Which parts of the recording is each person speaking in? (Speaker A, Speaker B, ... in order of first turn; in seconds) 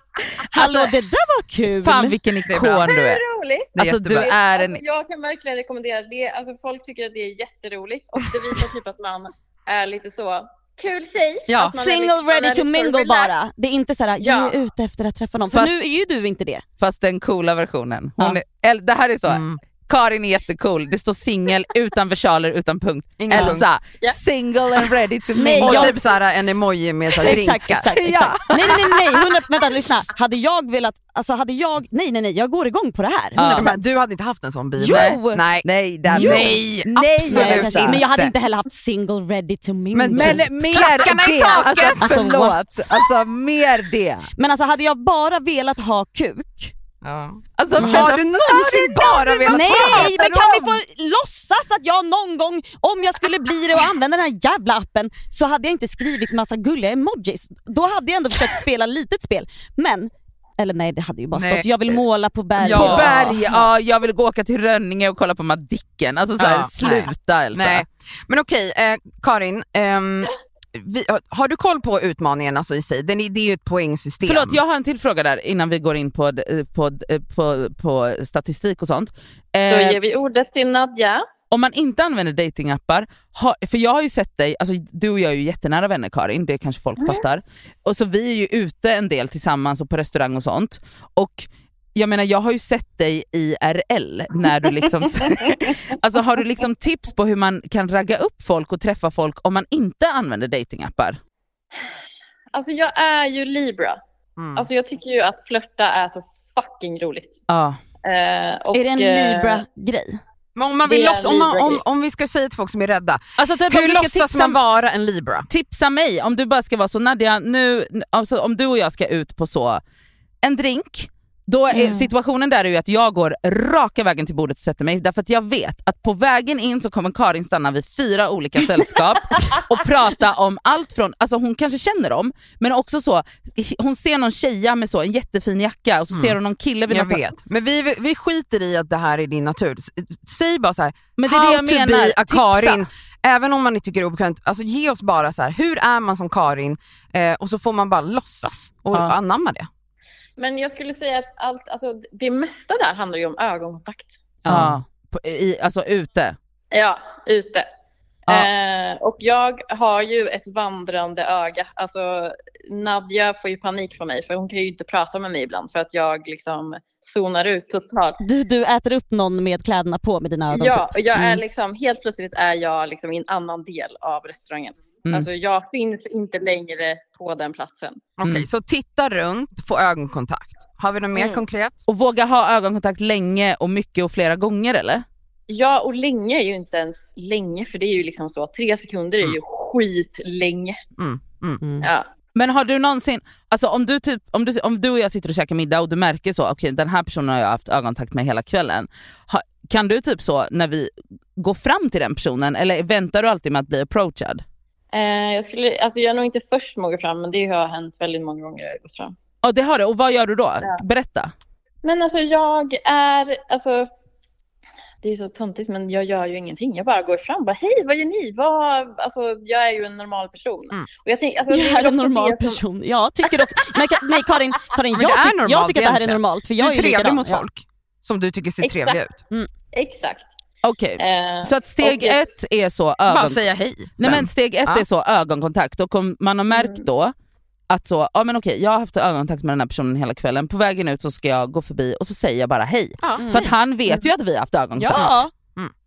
Speaker A: 0.5-2.1, 11.7-16.6, 25.3-25.9, 27.2-33.8, 34.8-35.4, 36.1-36.5, 37.3-40.8, 42.0-42.9, 44.4-46.7, 47.8-48.0, 49.5-63.6, 108.7-110.2, 168.2-171.4, 191.6-191.9, 221.5-227.4, 243.2-243.4, 244.8-245.3
Speaker B: 0.5-0.9, 1.8-3.2, 3.8-4.8, 16.8-25.9, 27.9-28.8, 33.4-33.7, 34.9-38.0, 40.1-44.3, 47.6-50.4, 62.7-67.8, 74.2-80.0, 81.5-101.2, 107.5-107.8, 113.4-114.6, 115.5-119.8, 120.4-137.2, 141.2-142.8, 154.4-156.3, 181.9-185.0, 192.3-204.4, 209.4-211.3, 230.6-233.4, 234.0-237.1, 237.7-245.2
Speaker C: 2.5-2.9, 3.8-4.3, 11.5-11.8, 15.5-15.9, 19.3-19.6, 23.2-23.7, 25.6-27.9, 33.4-38.3, 39.9-42.3, 47.0-50.7, 61.3-61.9, 62.6-63.4, 66.4-74.6, 104.4-104.7, 110.5-115.5, 136.1-136.3, 136.9-149.7, 154.5-154.7, 178.2-181.8, 191.0-191.6, 224.9-229.2, 233.1-234.8, 243.0-243.5, 244.9-245.7
Speaker D: 2.9-13.3, 14.2-14.5, 79.7-81.2, 95.2-95.5, 102.5-104.0, 104.5-107.4, 108.0-109.6, 110.8-111.8, 150.4-154.2, 156.7-157.7, 158.3-168.2, 170.5-178.0, 181.1-181.4, 185.5-190.8, 191.8-192.1, 204.9-209.1, 211.8-213.9, 215.0-222.6, 228.6-229.0, 229.7-230.3, 231.0-232.2, 236.5-236.8